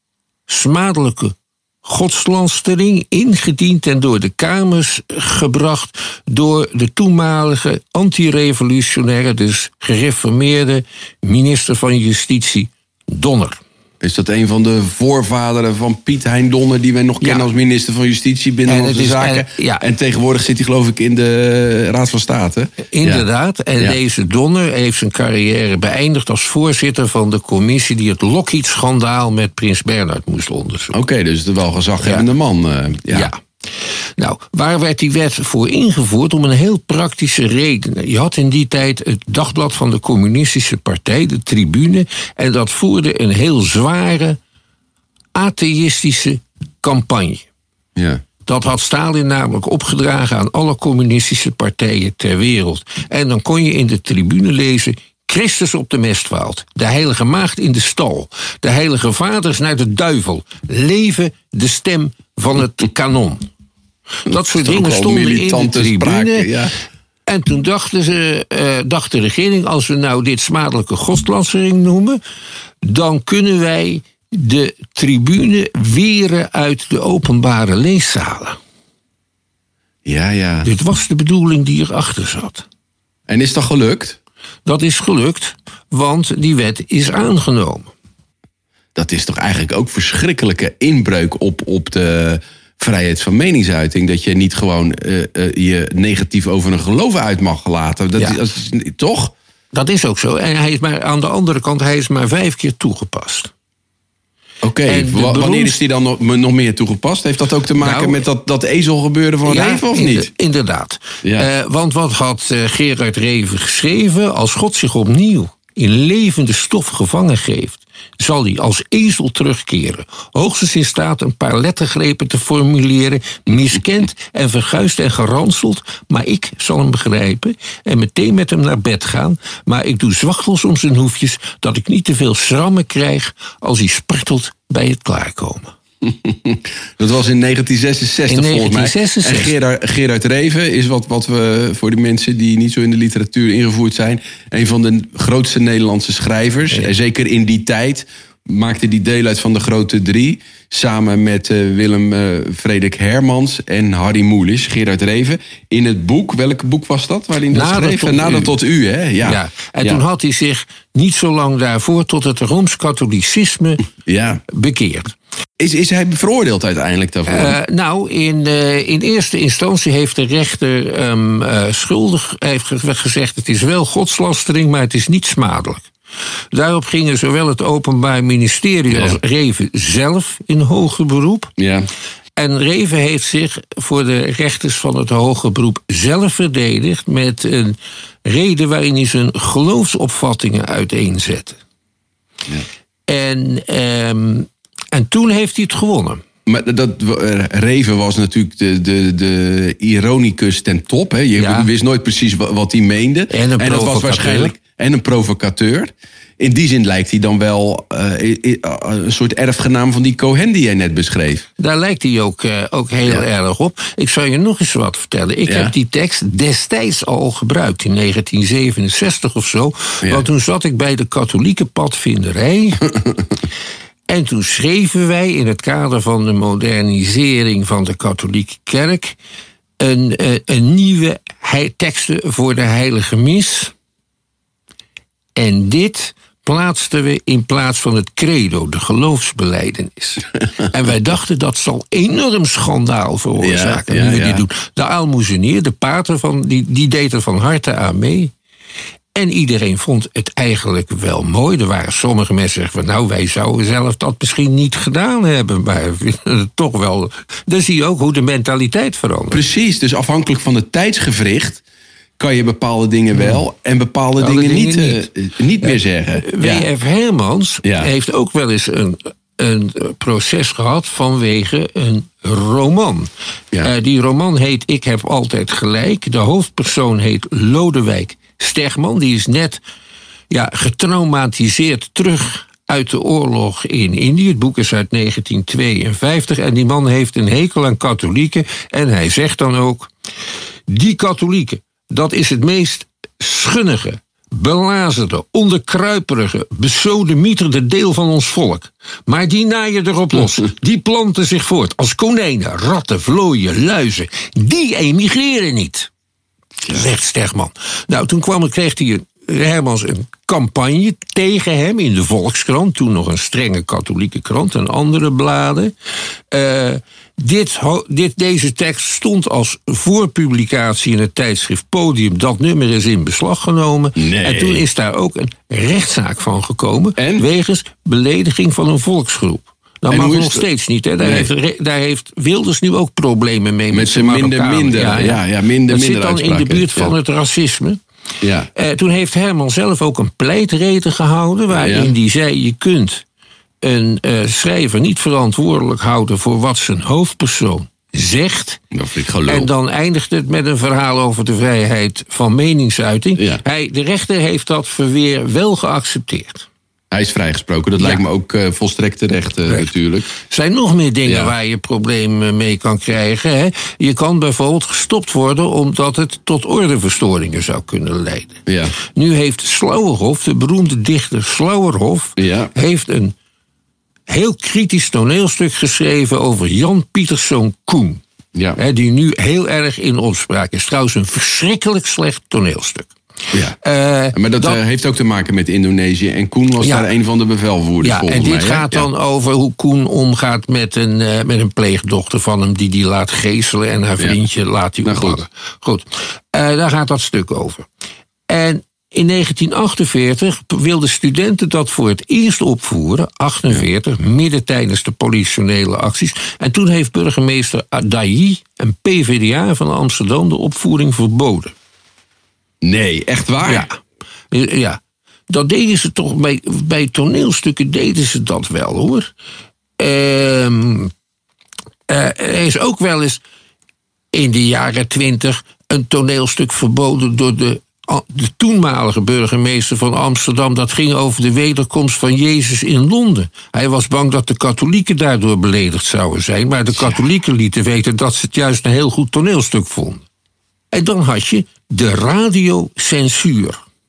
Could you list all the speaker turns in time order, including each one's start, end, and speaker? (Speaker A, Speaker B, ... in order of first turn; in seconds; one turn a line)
Speaker A: 0.5-13.6
Speaker B: 14.0-23.2
Speaker A: 18.7-19.8
Speaker A: 22.9-30.9
Speaker B: 30.9-33.3
Speaker A: 33.1-33.4
Speaker A: 34.2-44.4
Speaker A: 45.3-47.5
Speaker B: 48.0-48.2
Speaker A: 48.5-63.5
Speaker A: 64.2-66.5
Speaker B: 64.3-66.7
Speaker A: 67.3-72.2
Speaker A: 72.8-78.6
Speaker B: 80.0-80.7
Speaker A: 80.6-82.6
Speaker B: 83.3-84.2
Speaker A: 84.7-87.9
Speaker B: 88.9-99.3
Speaker A: 99.7-103.5
Speaker B: 104.6-110.3
Speaker A: 104.9-105.8
Speaker A: 107.8-108.2
Speaker A: 109.4-135.7
Speaker B: 111.2-111.5
Speaker B: 136.0-160.0
Speaker A: 138.3-139.5
Speaker A: 157.5-158.5
Speaker A: 159.2-163.8
Speaker B: 164.0-164.4
Speaker A: 164.5-165.1
Speaker B: 165.6-167.6
Speaker A: 167.3-175.9
Speaker A: 176.5-181.5
Speaker B: 178.9-179.2
Speaker B: 181.6-181.9
Speaker A: 182.4-191.6
Speaker A: 193.1-196.2
Speaker B: 196.4-211.4
Speaker A: 201.3-201.7
Speaker A: 203.3-204.5
Speaker A: 211.6-222.9
Speaker B: 215.5-215.7
Speaker A: 224.1-229.2
Speaker A: 229.8-233.7
Speaker A: 235.3-248.3
Speaker B: 243.4-244.4
Speaker A: 249.1-259.4
Speaker B: 259.3-261.6
Speaker B: 262.2-266.6
Speaker A: 263.1-263.4
Speaker A: 264.2-265.1
Speaker A: 265.6-273.1
Speaker B: 267.6-267.9
Speaker A: 273.6-279.6
Speaker A: 280.3-289.9
Speaker A: 290.7-305.9
Speaker A: 306.7-315.7
Speaker A: 316.3-337.8
Speaker B: 323.9-324.6
Speaker B: 327.0-327.3
Speaker B: 329.9-330.4
Speaker B: 331.0-331.3
Speaker B: 333.7-336.9
Speaker B: 338.2-338.5
Speaker A: 338.5-343.0
Speaker B: 341.5-341.9
Speaker A: 343.6-348.6
Speaker B: 348.7-349.5
Speaker A: 349.2-356.5
Speaker B: 356.9-360.1
Speaker A: 359.5-373.1
Speaker B: 361.1-361.3
Speaker B: 368.5-368.7
Speaker B: 372.2-372.5
Speaker A: 374.1-378.0
Speaker B: 378.3-378.6
Speaker A: 378.6-382.9
Speaker B: 383.3-383.6
Speaker A: 383.6-384.6
Speaker B: 384.1-388.9
Speaker A: 386.6-386.9
Speaker A: 387.8-397.6
Speaker B: 394.8-395.2
Speaker A: 398.3-411.5
Speaker B: 412.6-413.7
Speaker A: 413.4-413.8
Speaker A: 414.3-419.1
Speaker A: 419.8-420.9
Speaker A: 421.9-423.2
Speaker A: 424.1-440.0
Speaker A: 440.7-443.6